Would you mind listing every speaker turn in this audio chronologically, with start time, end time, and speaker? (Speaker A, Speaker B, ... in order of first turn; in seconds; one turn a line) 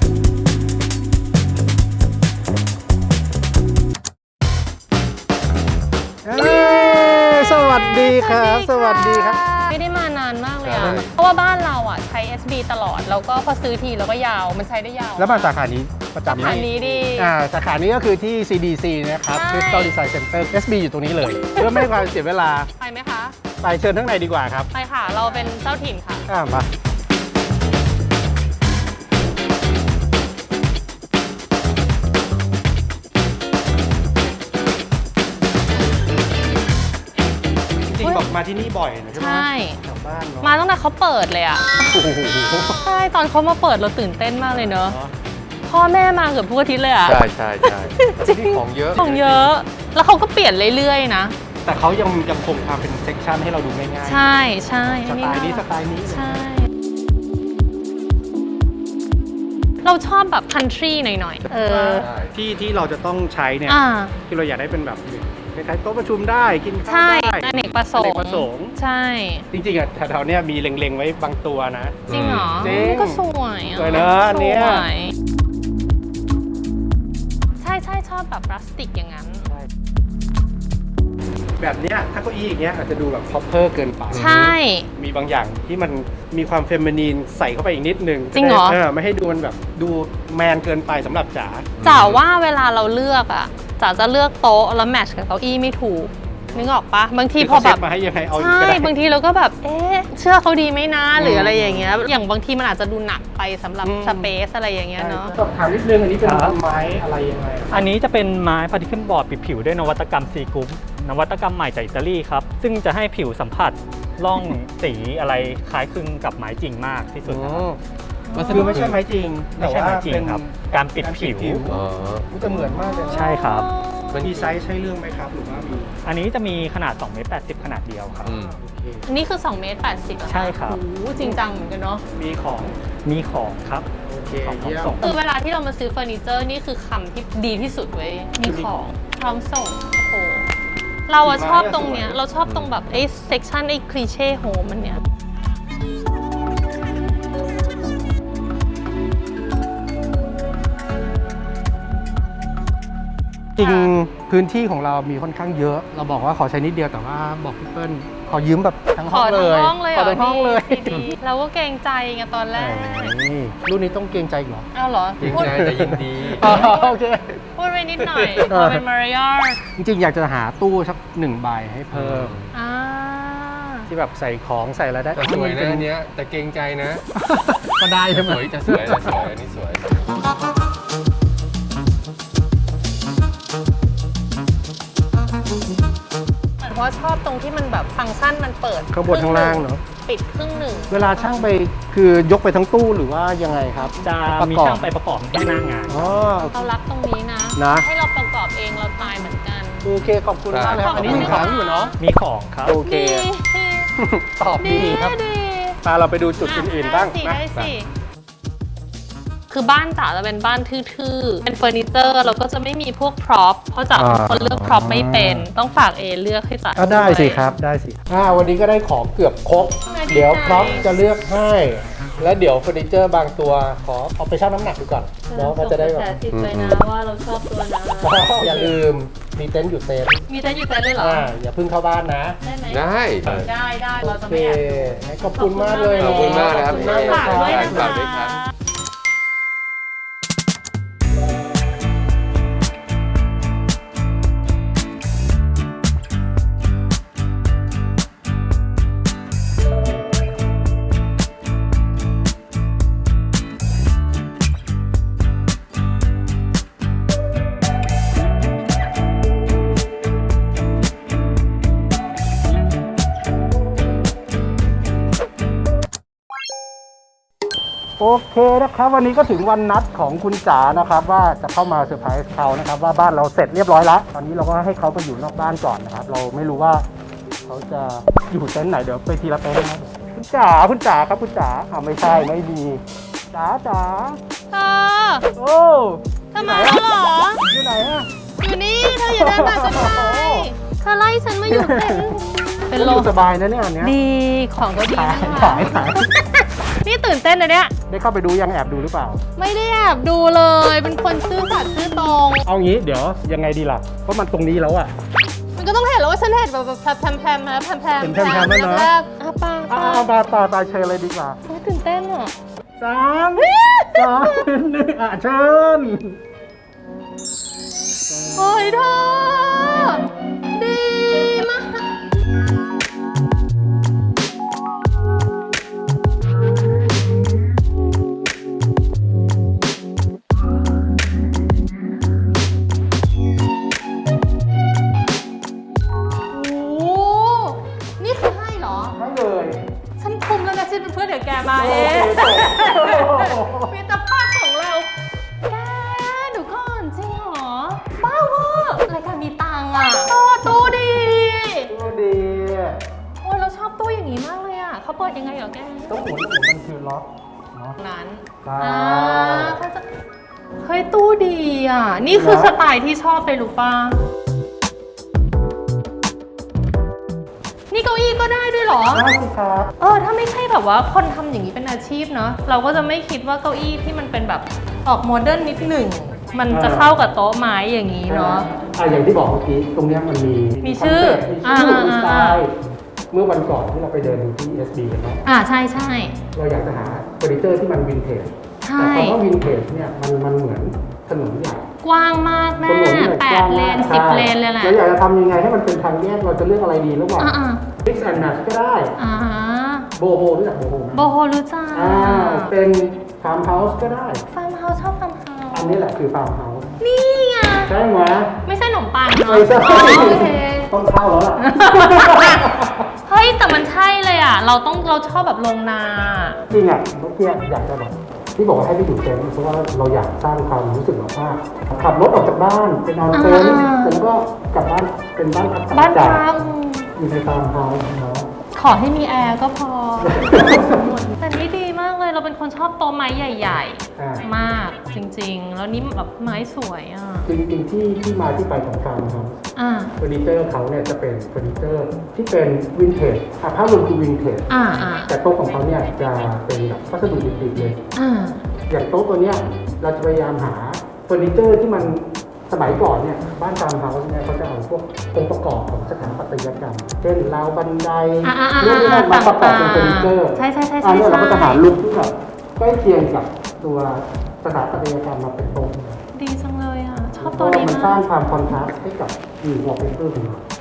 Speaker A: 6.2-9.4
Speaker B: 6.4-15.6
Speaker C: 10.7-11.1
Speaker A: 10.7-11.1
Speaker A: 15.2-22.7
Speaker B: 16.3-17.4
Speaker B: 19.3-19.9
Speaker B: 21.5-22.0
Speaker B: 22.8-23.4
Speaker A: 23.6-24.7
Speaker B: 24.7-26.3
Speaker A: 26.3-26.7
Speaker A: 37.9-40.5
Speaker B: 38.0-38.3
Speaker B: 39.1-39.8
Speaker B: 40.4-42.0
Speaker A: 41.8-42.8
Speaker B: 42.7-45.0
Speaker A: 44.5-45.2
Speaker B: 45.7-51.4
Speaker C: 47.0-49.5
Speaker A: 48.2-49.4
Speaker A: 51.6-56.5
Speaker B: 54.0-56.7
Speaker B: 59.8-62.1
Speaker A: 61.6-68.8
Speaker C: 62.0-62.4
Speaker B: 63.7-64.2
Speaker B: 66.9-69.5
Speaker A: 69.5-74.9
Speaker C: 72.1-72.7
Speaker B: 72.1-75.1
Speaker B: 77.6-79.5
Speaker A: 81.6-84.3
Speaker C: 84.1-84.5
Speaker B: 84.1-84.9
Speaker A: 85.0-91.8
Speaker B: 88.3-88.8
Speaker C: 91.8-92.2
Speaker B: 91.8-97.8
Speaker A: 96.2-96.7
Speaker A: 97.4-98.9
Speaker B: 98.3-105.3
Speaker A: 101.2-102.0
Speaker A: 103.8-104.3
Speaker A: 105.0-107.8
Speaker D: 106.2-106.6
Speaker D: 107.7-117.7
Speaker A: 117.2-117.8
Speaker B: 118.3-118.9
Speaker C: 118.4-119.0
Speaker A: 118.4-123.3
Speaker D: 118.5-118.9
Speaker D: 119.6-121.7
Speaker C: 121.7-122.3
Speaker B: 122.4-124.2
Speaker D: 123.1-123.7
Speaker C: 124.1-124.5
Speaker A: 124.2-125.9
Speaker D: 126.0-128.3
Speaker C: 128.2-128.6
Speaker A: 128.3-129.1
Speaker B: 129.1-132.0
Speaker D: 130.3-130.8
Speaker A: 131.2-131.4
Speaker A: 132.1-132.8
Speaker D: 133.1-133.9
Speaker A: 134.1-135.0
Speaker D: 134.4-135.2
Speaker B: 135.0-140.5
Speaker A: 138.4-138.8
Speaker B: 141.1-145.0
Speaker A: 141.2-142.2
Speaker A: 153.6-161.2
Speaker B: 153.6-153.9
Speaker B: 159.1-163.2
Speaker A: 162.6-164.7
Speaker B: 164.7-165.6
Speaker C: 165.2-166.7
Speaker A: 165.2-167.4
Speaker B: 166.3-167.0
Speaker B: 167.6-169.6
Speaker A: 168.0-168.8
Speaker A: 169.8-172.4
Speaker C: 171.9-172.5
Speaker B: 172.5-173.9
Speaker A: 173.9-175.9
Speaker C: 175.2-177.1
Speaker A: 177.2-179.3
Speaker C: 178.1-180.1
Speaker B: 186.6-191.5
Speaker A: 188.9-189.8
Speaker A: 190.9-194.9
Speaker D: 194.0-196.3
Speaker A: 195.9-196.7
Speaker B: 196.5-199.9
Speaker A: 197.6-197.9
Speaker A: 199.8-201.9
Speaker C: 200.5-201.5
Speaker B: 200.8-201.9
Speaker D: 200.9-201.4
Speaker D: 202.0-202.8
Speaker A: 202.7-203.3
Speaker B: 202.8-203.9
Speaker A: 204.0-205.2
Speaker B: 204.6-205.8
Speaker A: 205.8-207.4
Speaker B: 206.4-207.9
Speaker B: 209.5-217.5
Speaker A: 213.9-215.5
Speaker A: 216.8-226.2
Speaker B: 219.9-221.0
Speaker B: 225.2-228.8
Speaker C: 226.3-226.8
Speaker A: 228.0-230.2
Speaker B: 230.3-231.3
Speaker A: 231.0-232.4
Speaker B: 232.4-238.5
Speaker C: 232.7-233.5
Speaker A: 234.0-238.0
Speaker C: 236.0-238.4
Speaker A: 268.0-276.9
Speaker A: 277.4-284.2
Speaker B: 284.5-285.3
Speaker A: 285.4-286.9
Speaker B: 286.3-287.4
Speaker A: 287.4-288.1
Speaker B: 288.4-293.1
Speaker A: 288.9-290.5
Speaker A: 291.5-294.0
Speaker B: 293.8-297.7
Speaker A: 294.8-296.1
Speaker A: 297.9-299.2
Speaker B: 299.4-302.5
Speaker A: 302.4-304.9
Speaker B: 305.6-310.1
Speaker A: 308.0-308.9
Speaker A: 309.7-311.4
Speaker B: 311.4-312.3
Speaker A: 312.8-316.2
Speaker B: 313.4-314.4
Speaker A: 318.1-318.4
Speaker B: 318.4-322.0
Speaker B: 336.3-339.0
Speaker A: 338.9-339.6
Speaker B: 340.0-344.9
Speaker A: 341.5-343.7
Speaker B: 345.5-351.7
Speaker A: 350.4-351.1
Speaker A: 351.7-352.8
Speaker B: 353.2-356.0
Speaker A: 355.9-357.8
Speaker B: 357.8-359.9
Speaker A: 358.4-359.6
Speaker B: 360.6-364.0
Speaker A: 362.1-362.6
Speaker B: 367.7-369.1
Speaker A: 368.9-369.7
Speaker B: 369.8-378.5
Speaker A: 376.5-376.9
Speaker A: 378.1-382.5
Speaker B: 380.6-382.4
Speaker A: 383.1-385.2
Speaker B: 385.3-386.2
Speaker A: 386.3-391.6
Speaker B: 388.6-389.2
Speaker B: 391.8-394.8
Speaker A: 392.6-399.0
Speaker B: 397.2-397.7
Speaker B: 399.0-399.9
Speaker A: 400.0-401.1
Speaker B: 400.9-402.5
Speaker A: 401.7-404.2
Speaker B: 404.3-405.8
Speaker A: 405.5-406.7
Speaker B: 406.8-407.7
Speaker A: 407.6-408.3
Speaker B: 408.4-410.7
Speaker A: 409.2-412.9
Speaker B: 411.4-412.5
Speaker B: 413.1-416.4
Speaker A: 416.5-426.2
Speaker B: 423.1-424.0
Speaker B: 425.7-426.9
Speaker A: 427.0-428.3
Speaker B: 428.5-437.3
Speaker A: 430.0-430.9
Speaker A: 434.0-434.2
Speaker A: 437.3-439.4
Speaker B: 439.6-439.9
Speaker A: 440.0-447.8
Speaker B: 444.5-445.1
Speaker B: 447.9-448.5
Speaker A: 448.7-466.0
Speaker B: 458.2-461.7
Speaker B: 466.1-468.0
Speaker A: 467.2-470.4